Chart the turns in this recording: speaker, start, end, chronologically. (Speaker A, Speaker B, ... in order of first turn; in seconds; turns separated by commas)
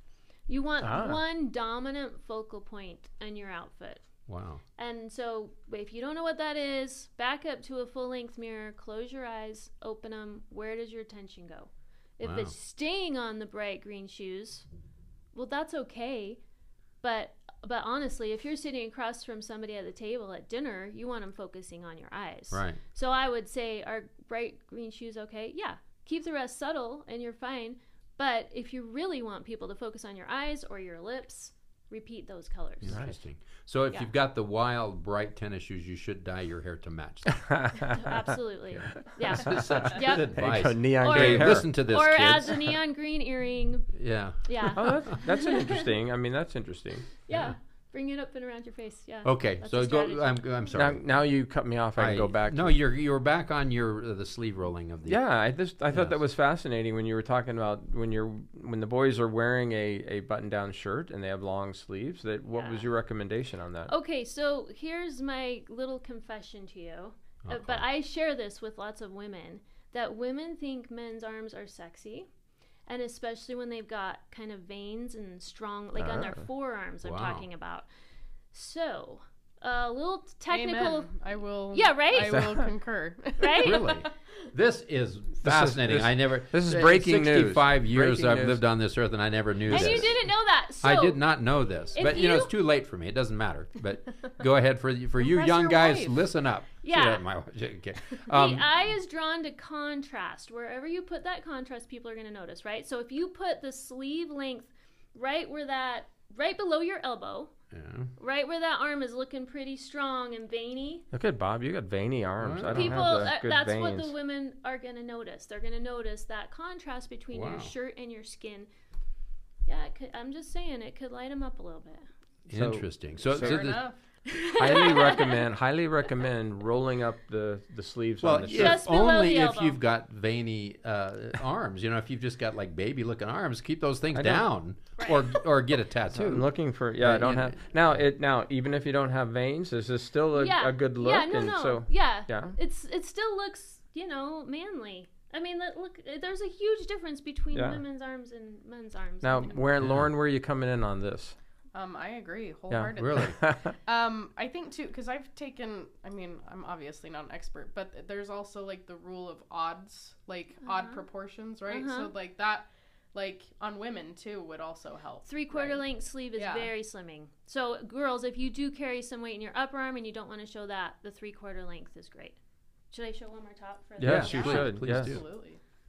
Speaker A: 0.5-4.1, Speaker B: 0.8-1.2, Speaker C: 4.3-4.6, Speaker A: 4.8-14.7, Speaker C: 12.2-12.5, Speaker A: 15.3-16.4, Speaker A: 17.0-33.0, Speaker C: 22.5-22.8, Speaker C: 32.8-37.7, Speaker B: 32.9-33.1, Speaker B: 37.5-37.9, Speaker A: 37.9-45.9, Speaker C: 39.3-42.7, Speaker B: 40.4-41.7, Speaker C: 43.9-45.0, Speaker B: 44.8-47.0, Speaker A: 47.2-50.7, Speaker C: 47.3-47.5, Speaker C: 49.2-51.0, Speaker B: 50.8-52.8, Speaker C: 52.0-55.2, Speaker B: 55.1-63.9, Speaker C: 55.9-56.2, Speaker A: 62.5-62.9, Speaker A: 63.9-72.3, Speaker C: 67.4-67.8, Speaker A: 72.9-77.9, Speaker B: 76.0-76.4, Speaker C: 77.0-77.5, Speaker A: 78.5-81.2, Speaker D: 80.5-84.2, Speaker A: 81.7-82.7, Speaker A: 83.4-84.0, Speaker C: 83.6-90.2, Speaker B: 85.4-88.6, Speaker A: 89.7-91.2, Speaker C: 90.8-98.7, Speaker A: 92.0-92.5, Speaker D: 95.2-96.2, Speaker A: 96.8-97.2, Speaker A: 98.1-107.5, Speaker C: 107.7-108.1, Speaker A: 108.2-111.1, Speaker B: 111.1-114.1, Speaker C: 112.4-113.3, Speaker A: 112.7-118.7, Speaker C: 117.3-117.7, Speaker A: 119.7-122.1, Speaker B: 122.5-123.7, Speaker C: 122.5-123.9, Speaker D: 123.3-124.0, Speaker A: 124.3-125.4, Speaker B: 124.5-128.8, Speaker C: 128.2-136.5, Speaker A: 128.4-129.8, Speaker B: 134.1-134.5, Speaker A: 135.0-135.3, Speaker B: 136.1-142.6, Speaker C: 137.0-138.0, Speaker A: 140.3-149.7, Speaker B: 147.5-147.8, Speaker B: 149.2-151.3, Speaker C: 149.8-150.1, Speaker D: 151.7-165.8, Speaker B: 152.7-153.7, Speaker C: 153.0-153.4, Speaker A: 160.6-161.0, Speaker A: 161.7-162.1, Speaker A: 165.2-172.4, Speaker D: 166.4-166.7, Speaker A: 172.9-174.7, Speaker B: 174.0-175.2, Speaker C: 174.0-175.2, Speaker D: 174.3-175.6